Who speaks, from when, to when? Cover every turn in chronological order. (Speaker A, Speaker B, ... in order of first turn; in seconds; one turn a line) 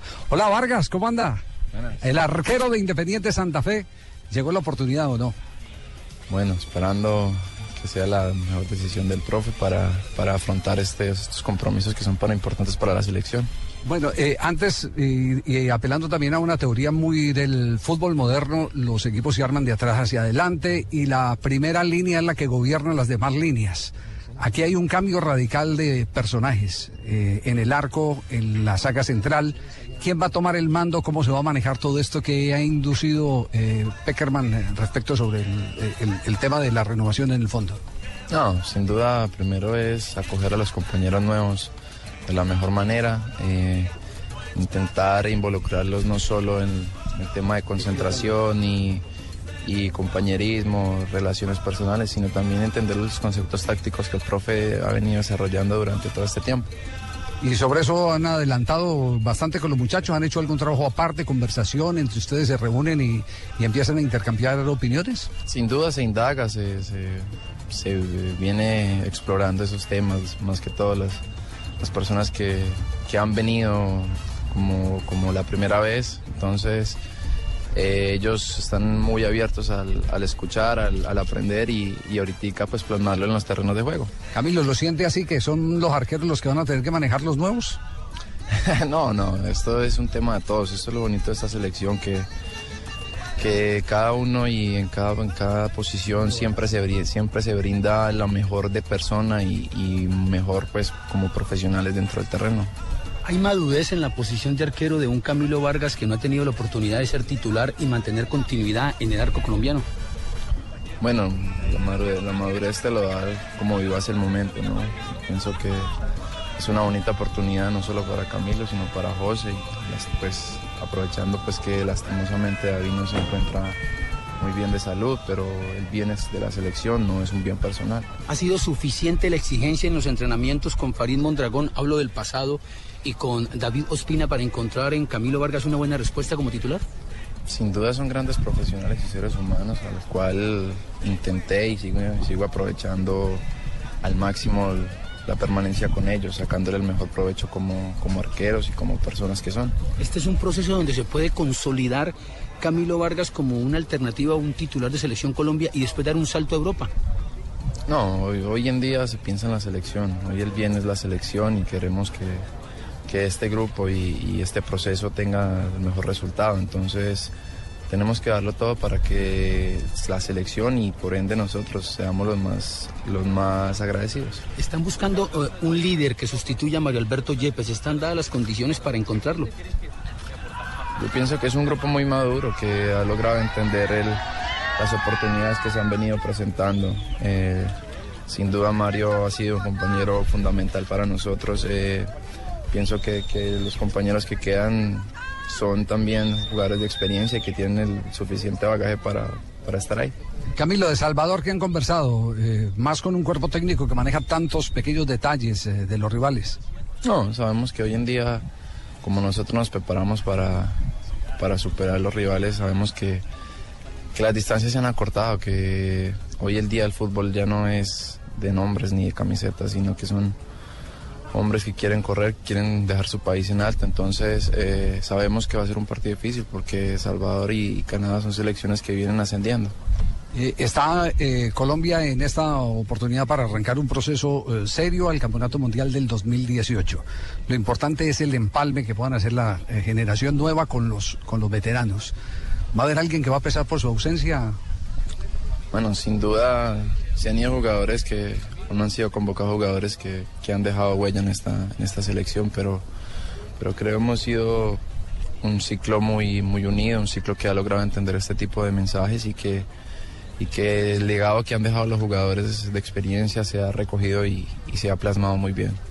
Speaker A: 0.3-1.4
Speaker B: 1.7-2.0
Speaker A: 2.0-5.4
Speaker B: 6.3-13.5
Speaker A: 13.8-37.8
Speaker B: 38.3-41.7
Speaker B: 42.3-43.9
Speaker B: 44.5-49.0
Speaker B: 49.6-56.7
Speaker A: 57.4-65.3
Speaker B: 65.5-71.2
Speaker B: 71.8-77.0
Speaker B: 77.7-84.1
Speaker A: 84.3-87.8
Speaker B: 88.5-92.3
Speaker B: 93.4-102.7
Speaker C: 103.2-109.9
Speaker B: 111.0-115.9
Speaker B: 116.6-123.8
Speaker B: 124.4-128.1
Speaker C: 128.3-136.8
Speaker B: 137.5-143.4
Speaker B: 144.0-149.8
Speaker C: 150.0-156.9
Speaker B: 157.9-162.5
Speaker B: 163.1-167.3
Speaker B: 167.9-174.4
Speaker C: 174.6-179.5
Speaker B: 181.0-184.2
Speaker B: 184.8-187.8
Speaker B: 188.3-192.1
Speaker B: 192.7-200.2
Speaker A: 200.6-206.6
Speaker B: 207.0-208.4
Speaker B: 209.0-210.8
Speaker B: 211.4-213.2
Speaker B: 214.1-220.4
Speaker B: 221.3-229.7
Speaker A: 230.3-242.1
Speaker A: 242.7-244.5
Speaker B: 245.7-252.9
Speaker B: 253.6-254.8
Speaker B: 255.4-259.7
Speaker B: 260.4-265.8